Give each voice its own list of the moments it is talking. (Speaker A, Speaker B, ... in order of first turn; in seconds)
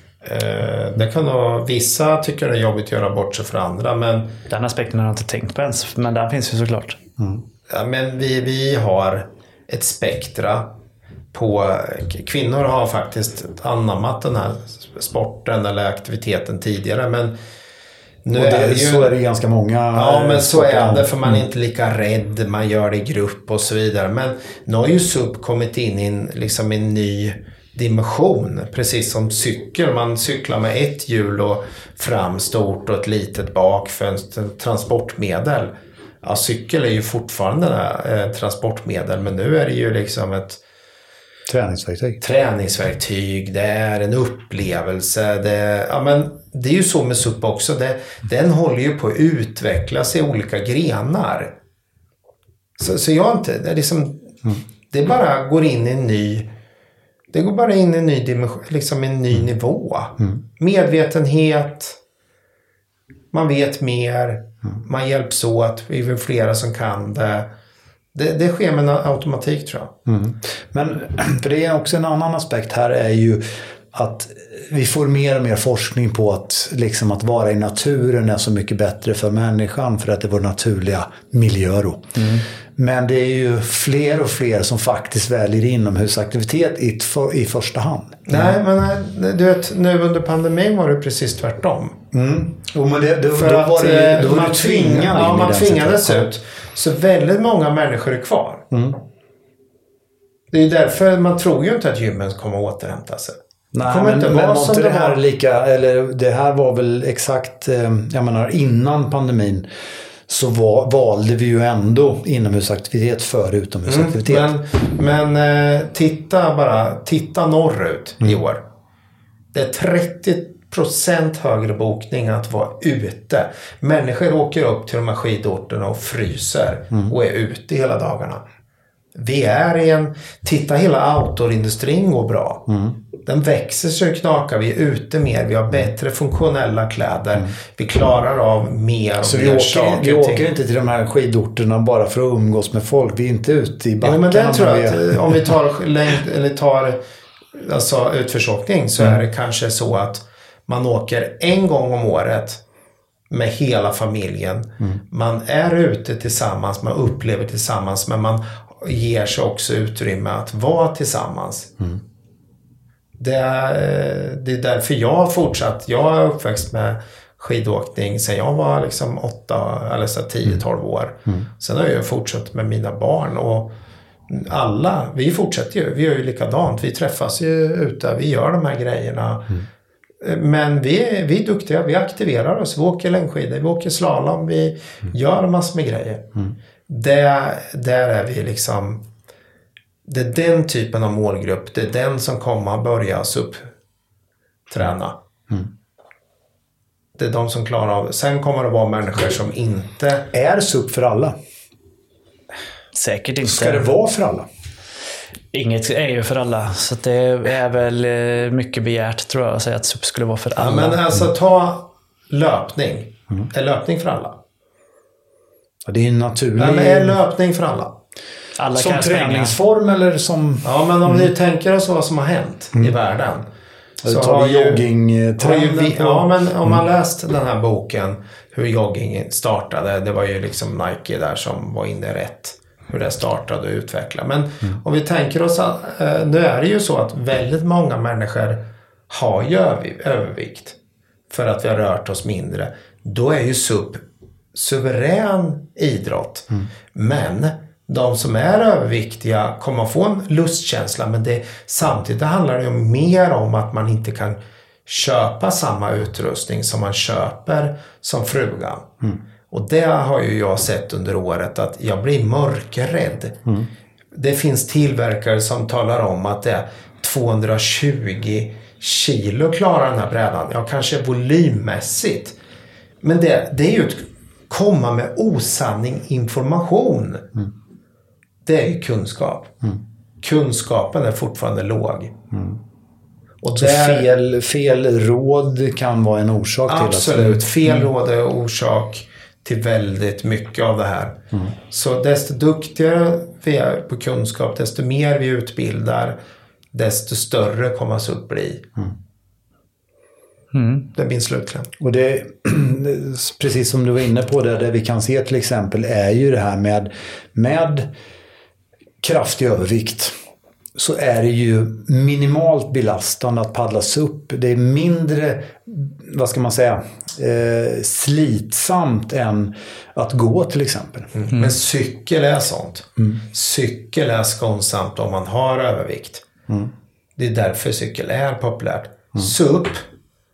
Speaker A: 0.2-4.3, 7.7-10.7, 11.3-17.4, 18.2-19.1, 19.9-40.6, 42.2-51.5, 52.8-56.5, 57.3-62.0, 63.3-67.5, 68.1-69.9, 88.3-92.0, 93.3-98.6, 100.5-105.2, 113.9-118.6, 119.5-128.4, 129.1-132.7, 133.2-140.4, 144.0-147.0, 147.5-152.6, 153.3-161.7, 163.2-173.7, 174.3-179.6, 180.2-186.3, 186.9-189.0, 190.0-193.7, 194.7-195.2, 197.2-200.3, 210.6-214.4, 216.6-217.9, 220.6-223.5, 224.0-224.8, 225.4-240.8, 241.3-244.0, 244.5-258.9, 259.5-263.4, 264.1-272.4, 273.0-277.3, 278.4-279.5, 280.2-282.1, 283.4-284.1, 286.7-291.2, 291.7-296.2, 296.7-298.6, 300.9-301.7, 321.1-326.2, 327.2-329.8
Speaker B: 4.5-7.0, 82.2-82.5, 202.9-203.8, 205.5-211.0, 218.6-219.6, 300.5-300.9
Speaker C: 18.3-21.4, 41.5-42.2, 70.0-88.5, 92.1-96.3, 98.7-99.0, 103.7-109.7, 110.3-114.5, 132.7-132.9, 139.2-145.5, 200.3-201.3, 203.4-204.5, 215.8-217.2, 218.7-221.2, 224.0-226.8, 282.3-282.6, 283.6-287.8, 301.8-307.9, 309.0-310.1, 310.7-321.1